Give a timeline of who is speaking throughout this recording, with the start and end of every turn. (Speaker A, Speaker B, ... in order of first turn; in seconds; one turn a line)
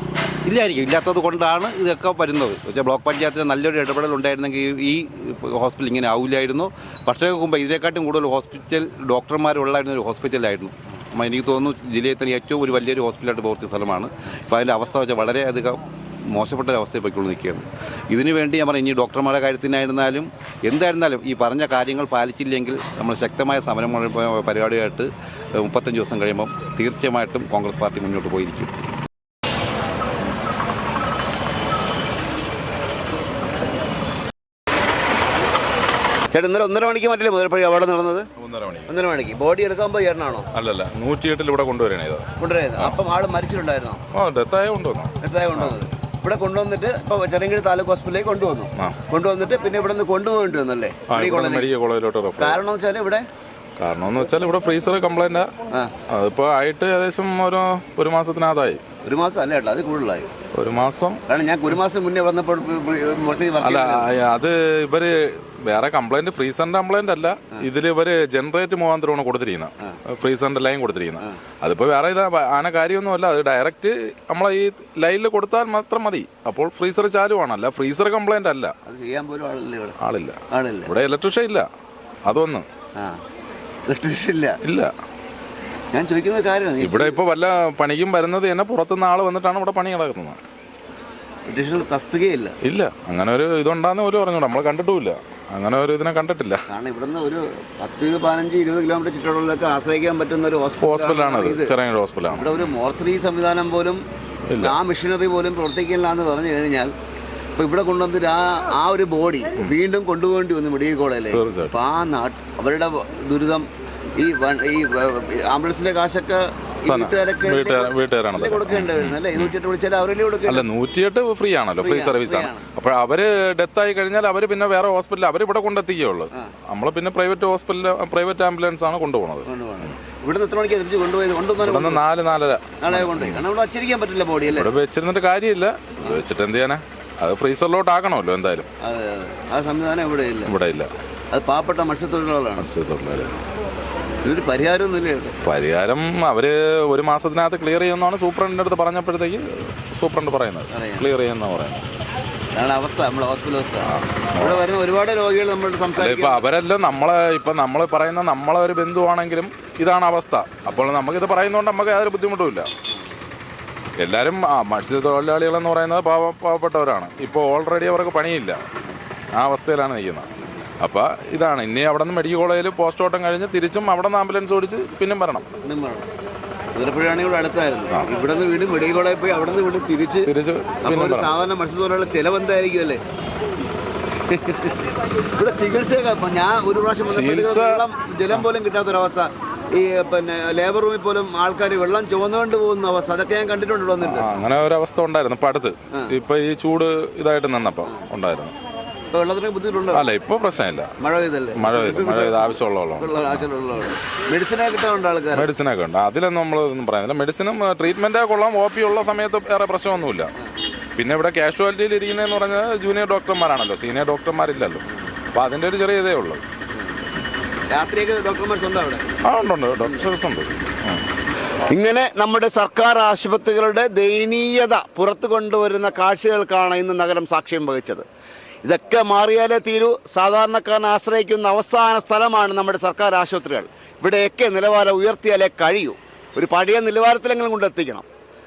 Speaker A: 0.5-28.7
Speaker B: 36.3-38.3
Speaker C: 38.4-38.9
Speaker B: 38.9-40.5
Speaker C: 40.5-42.3
Speaker B: 42.4-44.0
Speaker C: 44.1-45.8
Speaker B: 45.2-51.7
Speaker C: 51.1-52.6
Speaker B: 52.4-53.2
Speaker C: 53.8-55.5
Speaker C: 56.1-58.8
Speaker B: 59.0-60.3
Speaker C: 60.6-61.2
Speaker B: 61.3-64.1
Speaker C: 63.6-78.7
Speaker B: 78.8-80.0
Speaker C: 80.0-81.7
Speaker B: 80.5-80.9
Speaker C: 82.3-82.7
Speaker B: 83.9-84.6
Speaker C: 84.6-84.9
Speaker B: 85.9-87.2
Speaker C: 86.8-90.4
Speaker B: 91.5-92.5
Speaker C: 92.6-96.6
Speaker B: 96.7-101.7
Speaker C: 100.8-102.6
Speaker B: 102.3-104.0
Speaker C: 104.5-104.8
Speaker B: 104.6-106.9
Speaker B: 107.6-120.7
Speaker C: 111.3-111.8
Speaker C: 116.9-119.5
Speaker C: 120.5-129.9
Speaker B: 121.8-122.6
Speaker B: 129.5-132.0
Speaker C: 131.6-133.4
Speaker B: 132.8-134.7
Speaker C: 134.5-138.7
Speaker B: 138.8-140.5
Speaker C: 140.5-140.9
Speaker B: 141.3-142.7
Speaker C: 142.6-143.4
Speaker B: 144.2-145.4
Speaker C: 145.4-151.9
Speaker B: 150.7-151.1
Speaker B: 152.5-156.4
Speaker C: 153.9-154.6
Speaker C: 156.0-162.7
Speaker C: 164.0-168.6
Speaker C: 169.4-170.3
Speaker C: 170.8-175.4
Speaker B: 175.6-176.0
Speaker B: 176.8-180.3
Speaker C: 180.2-181.3
Speaker B: 180.8-183.0
Speaker B: 184.3-184.7
Speaker B: 185.4-194.3
Speaker C: 187.1-187.8
Speaker C: 194.0-198.5
Speaker B: 199.1-200.0
Speaker C: 199.9-200.9
Speaker B: 201.0-205.5
Speaker C: 201.6-203.5
Speaker C: 205.3-210.3
Speaker C: 211.0-216.4
Speaker B: 216.7-217.0
Speaker B: 217.7-219.1
Speaker C: 219.3-221.0
Speaker B: 221.7-228.1
Speaker B: 228.6-238.1